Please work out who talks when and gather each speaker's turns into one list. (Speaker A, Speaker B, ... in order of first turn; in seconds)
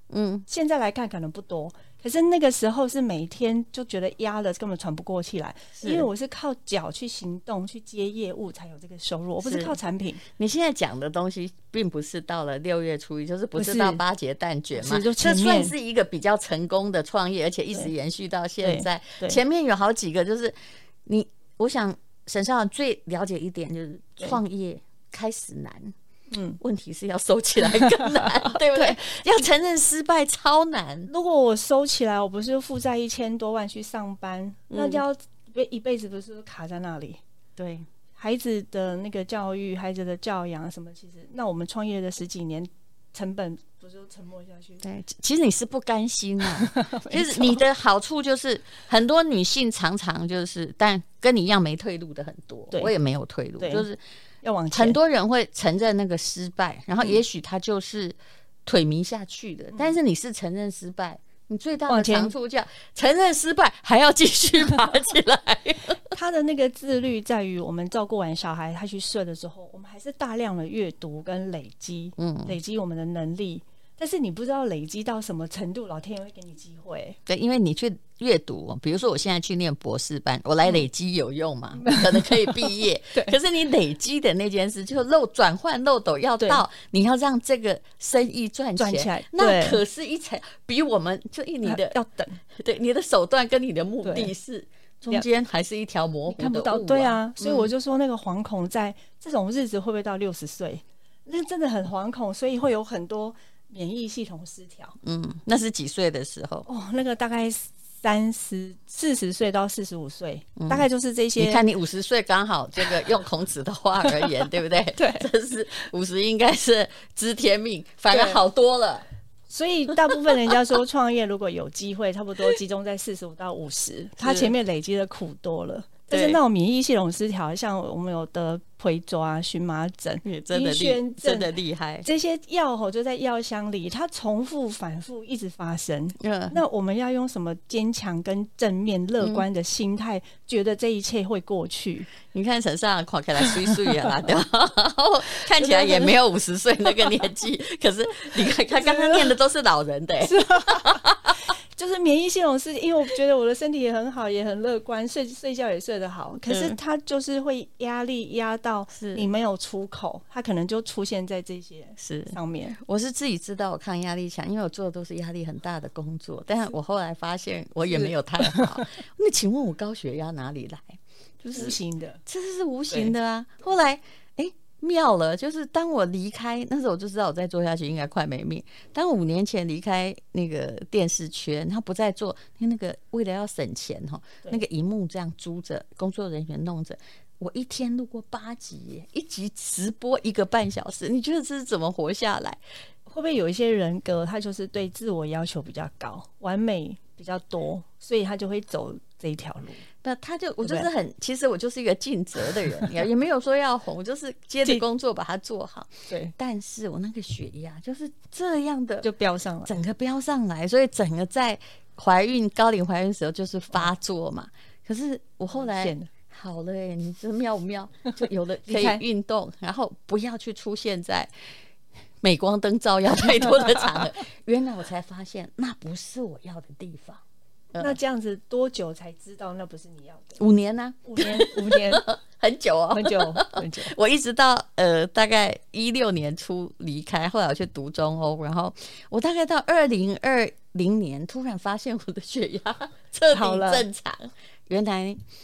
Speaker A: 0.1-0.5, 5.8-6.1, 9.4-25.9, 26.6-31.1, 34.7-35.0, 37.6-37.9, 44.8-54.0, 54.7-66.1, 72.2-72.6, 77.3-92.0, 92.5-97.7, 105.0-106.7, 110.6-110.8, 111.4-119.0, 124.2-124.5, 126.1-126.4, 130.2-132.1, 136.2-136.6, 142.2-151.4, 156.5-156.8, 158.9-159.3, 162.0-192.6, 200.0-209.1, 209.7-221.3, 222.2-227.2, 230.4-245.2
Speaker B: 0.5-10.2, 13.6-14.0, 14.8-15.7, 18.6-19.4, 26.3-26.6, 27.7-29.0, 31.1-37.2, 38.2-44.8, 46.6-47.6, 53.6-53.9, 54.4-55.0, 61.9-62.3, 66.1-77.2, 81.8-82.5, 88.8-89.8, 91.6-92.4, 94.0-94.3, 96.3-105.0, 106.7-111.6, 115.0-115.3, 118.1-118.4, 119.5-131.5, 132.0-142.1, 145.6-146.1, 148.7-149.3, 150.2-151.0, 151.7-162.8, 167.9-168.9, 171.6-172.2, 193.1-199.8, 200.6-200.9, 206.1-206.3, 209.0-209.8, 215.6-216.1, 218.7-219.0, 227.8-230.4, 231.1-232.1, 232.9-233.9, 243.3-243.8